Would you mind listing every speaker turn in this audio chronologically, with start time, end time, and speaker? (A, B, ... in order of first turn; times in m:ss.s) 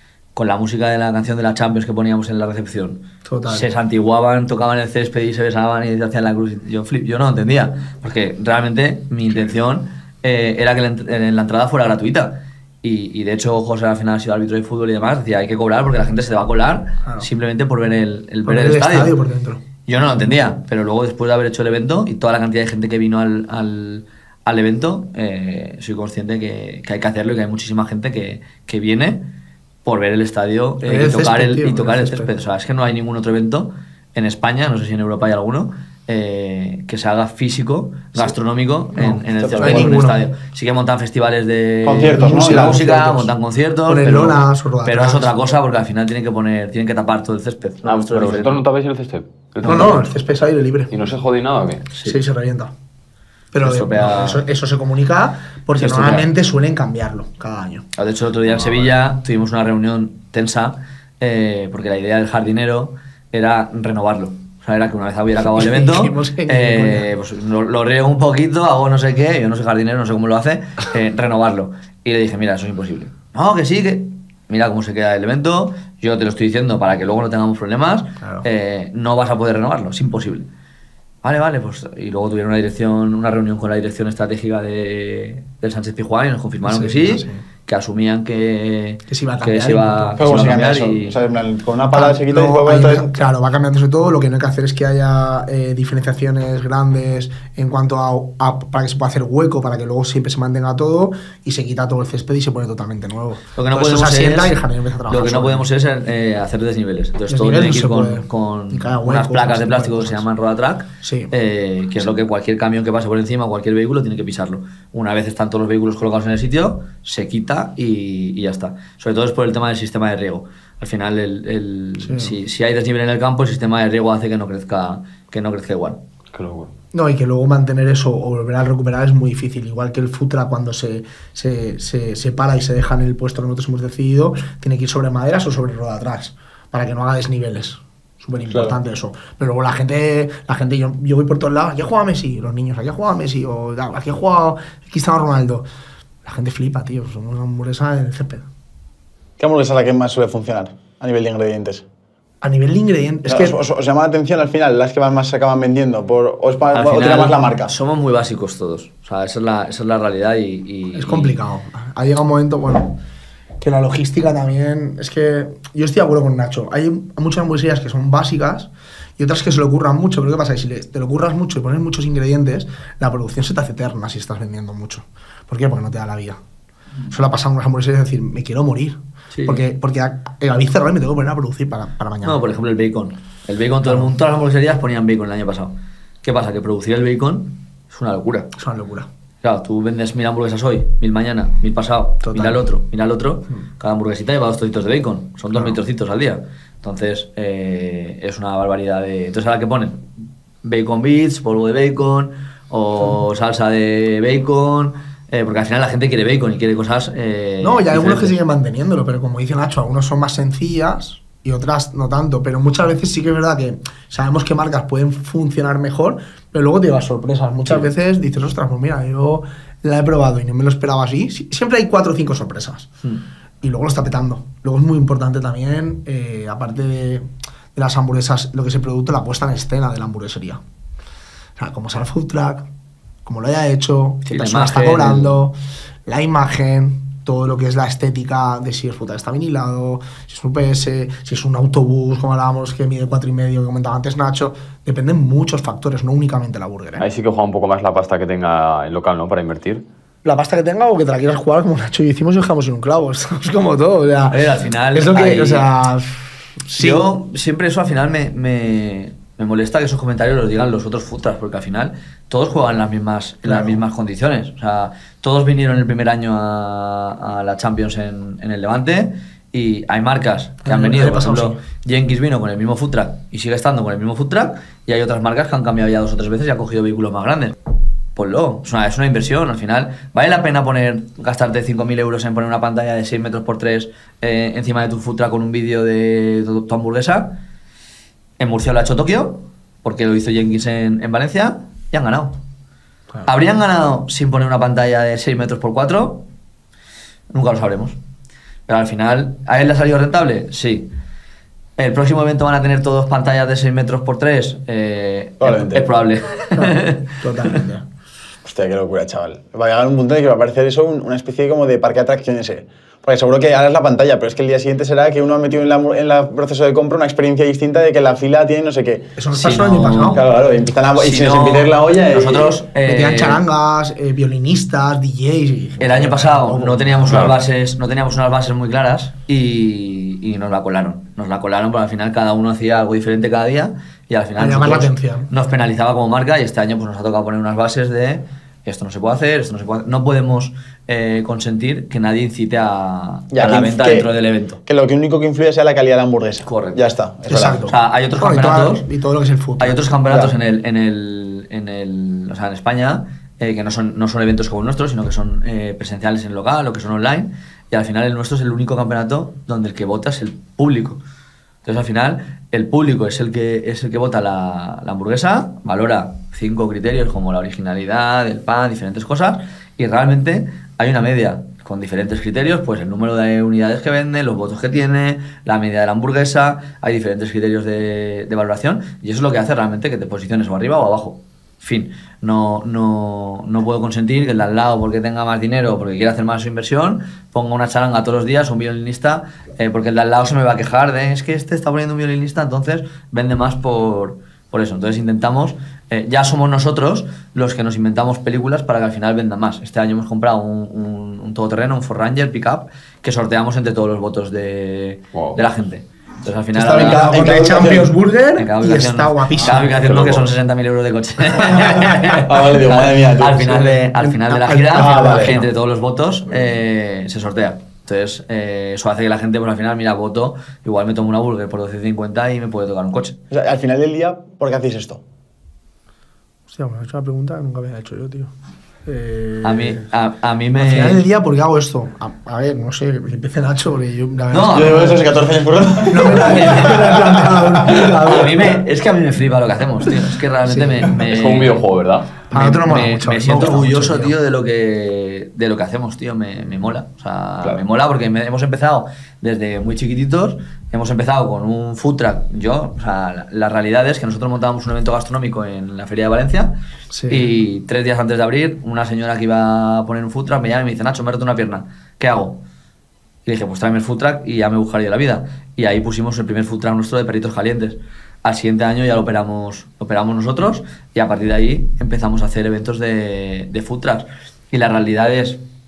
0:00.3-0:19.1 A
0:03.2-0:03.7 B
0:18.4-0:19.6 B
0:19.8-0:29.2 A
0:29.8-0:48.6 A
0:30.8-0:32.3 B
0:38.9-0:40.2 B
0:39.4-0:39.9 C
0:41.8-0:42.9 C
0:42.0-0:43.3 B
0:43.9-0:45.3 B
0:47.8-0:50.1 D
0:49.6-0:50.9 B
0:50.9-0:51.8 D
0:52.0-0:52.7 B
0:53.5-0:57.8 B
0:53.6-0:54.4 A
0:55.8-0:56.3 A
0:58.0-1:20.5 A
1:05.4-1:07.1 B
1:21.2-1:31.2 A
1:26.6-1:27.4 B
1:29.1-1:30.5 B
1:30.2-1:33.1 C
1:31.9-1:45.7 B
1:43.5-1:44.6 A
1:45.1-2:06.0 A
1:47.3-1:50.2 B
1:51.0-1:51.3 B
2:02.0-2:02.4 B
2:06.3-2:06.7 D
2:06.9-2:25.6 B
2:26.2-2:28.4 B
2:29.4-2:31.8 C
2:32.4-2:33.6 B
2:33.3-2:37.7 C
2:36.7-2:41.3 A
2:40.9-2:43.0 B
2:43.6-2:56.4 B
2:57.1-3:02.4 B
2:59.3-2:59.6 A
3:02.2-3:08.5 A
3:08.6-3:09.1 B
3:09.4-3:20.0 A
3:12.2-3:12.6 B
3:20.6-3:28.4 A
3:27.6-3:42.9 B
3:43.6-3:50.6 B
3:51.6-3:52.7 B
3:53.2-3:55.5 B
3:54.2-3:55.4 A
3:56.0-4:07.0 B
4:07.0-4:09.8 D
4:10.2-4:17.0 B
4:14.3-4:15.7 A
4:16.8-4:37.6 A
4:23.4-4:23.8 B
4:30.6-4:31.6 B
4:38.2-4:47.4 A
4:48.4-4:52.4 A
4:53.2-4:56.2 A
4:57.3-4:58.0 A
4:58.7-5:00.9 A
5:01.8-5:07.6 A
5:05.4-5:05.9 C
5:06.5-5:07.8 B
5:08.4-5:19.1 C
5:19.2-5:20.2 B
5:19.3-5:20.2 A
5:20.1-5:22.5 C
5:20.9-5:23.4 A
5:22.8-5:27.4 B
5:25.8-5:44.6 A
5:27.1-5:27.4 D
5:34.4-5:35.3 B
5:43.3-5:44.1 C
5:44.6-5:47.6 C
5:46.4-5:46.8 A
5:47.3-5:49.9 B
5:47.6-5:48.8 A
5:49.6-6:01.0 A
6:01.6-6:47.4 A
6:46.5-6:49.9 B
6:46.7-6:47.9 C
6:48.4-7:03.2 A
6:51.4-6:52.0 B
6:52.2-6:53.7 C
6:54.0-6:55.5 B
6:54.7-6:55.4 C
7:03.3-7:05.0 C
7:06.5-7:08.3 B
7:08.8-7:09.8 B
7:09.4-7:11.0 A
7:10.6-7:15.0 B
7:14.3-7:15.0 A
7:14.5-7:16.8 C
7:15.8-7:18.6 B
7:16.0-7:21.6 A
7:20.4-7:20.9 B
7:20.9-7:22.1 D
7:22.3-7:24.2 B
7:22.3-7:36.5 A
7:36.9-7:37.3 B
7:37.1-7:42.4 A
7:43.2-7:55.4 A